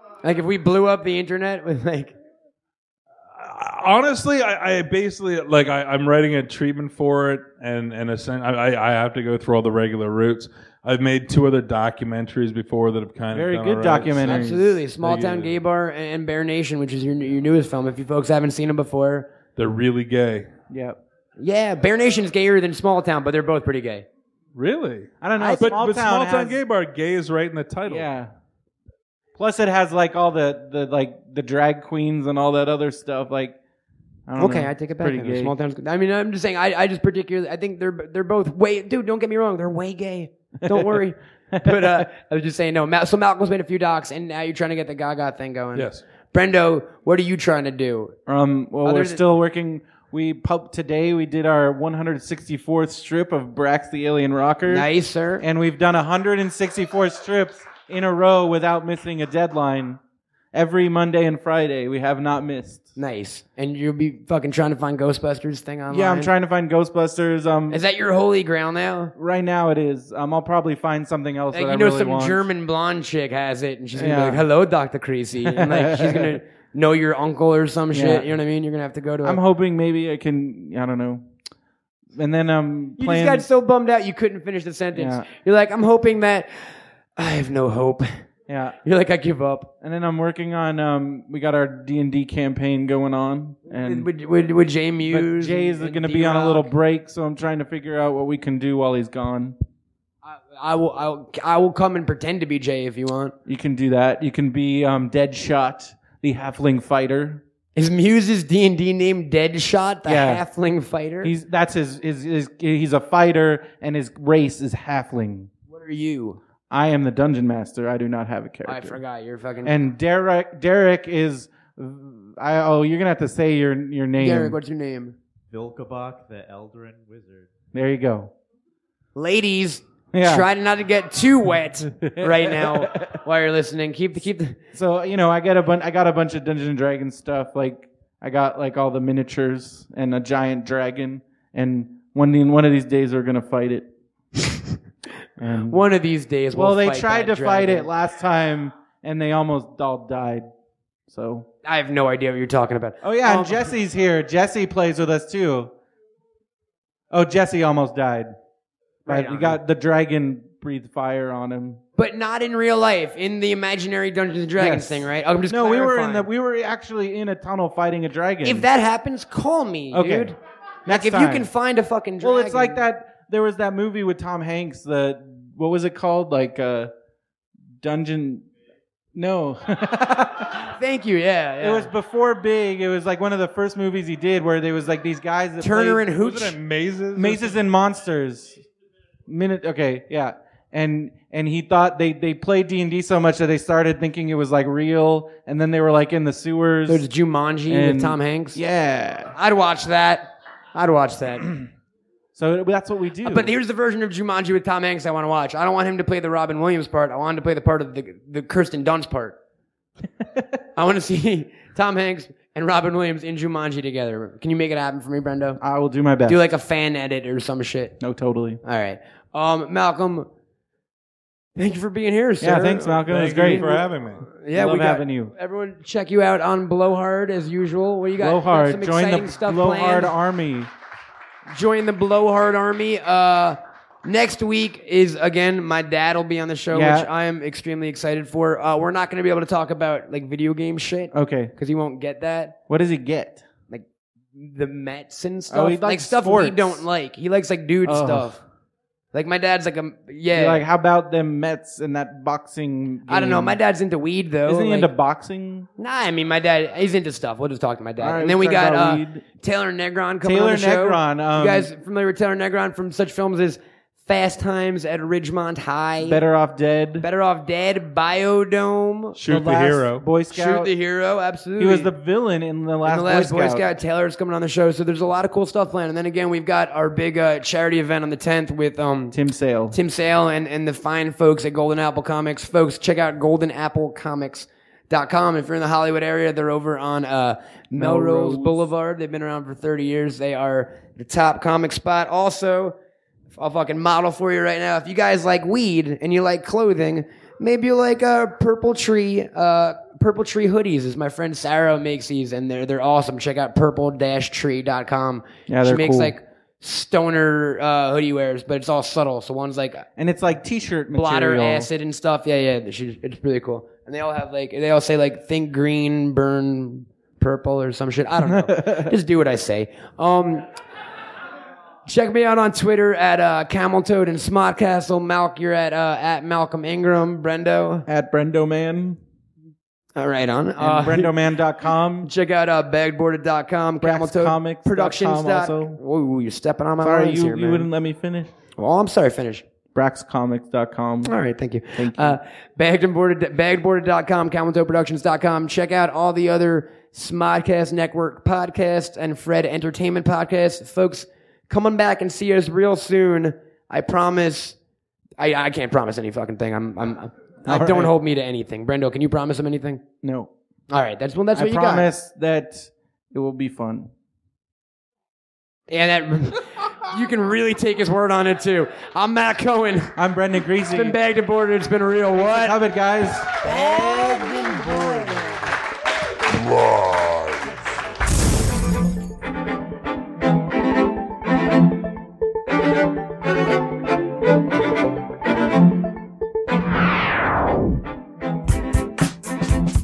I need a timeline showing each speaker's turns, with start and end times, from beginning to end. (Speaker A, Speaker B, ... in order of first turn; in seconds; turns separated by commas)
Speaker A: 0.2-2.1, Speaker B: 3.3-15.5, Speaker C: 13.3-14.7, Speaker A: 14.2-19.3, Speaker B: 19.6-20.5, Speaker C: 20.7-21.0, Speaker A: 21.4-24.1, Speaker B: 24.5-28.1, Speaker C: 25.2-26.6, Speaker A: 25.4-25.7, Speaker C: 27.9-28.3, Speaker C: 29.4-33.5, Speaker C: 34.3-35.5, Speaker A: 34.4-48.1, Speaker C: 40.6-41.0, Speaker C: 41.5-42.0, Speaker B: 45.7-46.0, Speaker C: 48.2-54.9, Speaker A: 48.8-49.2, Speaker A: 54.7-55.4, Speaker C: 55.4-60.0, Speaker C: 60.5-62.9, Speaker A: 63.0-66.3, Speaker C: 65.9-67.8, Speaker A: 67.7-69.1, Speaker C: 69.1-72.4, Speaker A: 71.5-79.4, Speaker C: 73.9-74.4, Speaker C: 75.4-76.4, Speaker C: 77.9-78.3, Speaker C: 79.2-81.3, Speaker C: 82.2-83.5, Speaker A: 83.0-88.1, Speaker C: 84.9-85.3, Speaker C: 88.5-88.8, Speaker A: 88.8-89.7, Speaker C: 89.8-94.1, Speaker A: 93.7-96.7, Speaker C: 95.0-99.5, Speaker A: 100.2-103.3, Speaker C: 103.5-107.4, Speaker A: 107.8-111.3, Speaker C: 110.0-110.4, Speaker C: 111.2-115.5, Speaker A: 115.7-116.4, Speaker C: 116.7-119.0, Speaker A: 118.7-119.8, Speaker C: 119.6-124.5, Speaker A: 124.2-125.2, Speaker D: 125.5-127.5, Speaker C: 127.7-128.3, Speaker A: 129.1-134.6, Speaker C: 130.1-130.5, Speaker C: 132.0-133.2, Speaker C: 134.7-143.9, Speaker C: 145.4-145.8, Speaker A: 145.7-147.9, Speaker C: 146.5-150.5, Speaker C: 151.1-151.5, Speaker A: 151.6-153.7, Speaker C: 153.0-155.7, Speaker C: 157.1-158.3, Speaker A: 159.0-159.6, Speaker C: 159.1-161.8, Speaker A: 161.9-166.3, Speaker C: 164.6-168.7, Speaker A: 168.4-172.8, Speaker C: 169.9-171.5, Speaker C: 172.2-176.9, Speaker C: 177.8-178.5, Speaker C: 179.1-180.7, Speaker A: 180.7-181.9, Speaker C: 181.6-186.1, Speaker A: 185.6-186.6, Speaker B: 186.2-187.6, Speaker C: 187.2-188.6, Speaker C: 189.3-197.0, Speaker A: 196.9-198.6, Speaker C: 197.7-199.3, Speaker A: 199.3-201.5, Speaker C: 202.3-203.5, Speaker A: 203.2-209.4, Speaker A: 210.8-215.6, Speaker C: 215.6-216.4, Speaker A: 216.2-217.9, Speaker C: 218.0-218.6, Speaker A: 218.6-220.3, Speaker A: 221.6-230.1, Speaker C: 222.4-223.7, Speaker B: 223.1-224.3, Speaker C: 224.5-225.3, Speaker C: 228.2-230.7, Speaker A: 231.5-242.6, Speaker C: 236.7-237.1, Speaker C: 241.1-241.5, Speaker C: 242.7-243.4, Speaker A: 243.7-248.4, Speaker C: 245.5-246.8, Speaker C: 247.8-248.3, Speaker A: 249.1-250.6, Speaker C: 250.3-253.6, Speaker A: 253.1-254.9, Speaker C: 254.4-255.7, Speaker A: 255.8-266.2, Speaker C: 258.0-259.2, Speaker C: 260.2-261.7, Speaker C: 266.0-267.1, Speaker A: 267.0-269.2, Speaker B: 269.1-270.1, Speaker C: 269.3-270.7, Speaker A: 270.3-271.9, Speaker C: 271.6-273.6, Speaker A: 272.8-279.1, Speaker C: 279.1-279.8, Speaker A: 279.7-292.7, Speaker C: 287.8-288.7, Speaker A: 293.3-309.9, Speaker C: 305.5-306.1, Speaker C: 309.9-311.7, Speaker A: 310.9-320.4, Speaker C: 318.2-318.9, Speaker A: 321.8-327.8, Speaker C: 327.9-329.0, Speaker A: 329.9-331.1, Speaker C: 330.6-332.1, Speaker A: 332.0-337.7, Speaker C: 333.8-335.8, Speaker C: 336.8-338.3, Speaker A: 338.6-339.4, Speaker C: 339.7-341.1, Speaker A: 341.0-354.6, Speaker C: 341.8-342.2, Speaker A: 355.2-359.8, Speaker C: 357.4-357.9, Speaker C: 360.0-360.3, Speaker A: 360.7-361.9, Speaker C: 361.3-363.9, Speaker A: 365.7-370.0, Speaker C: 369.9-370.9, Speaker A: 370.6-372.6, Speaker C: 372.3-375.4, Speaker A: 373.4-375.5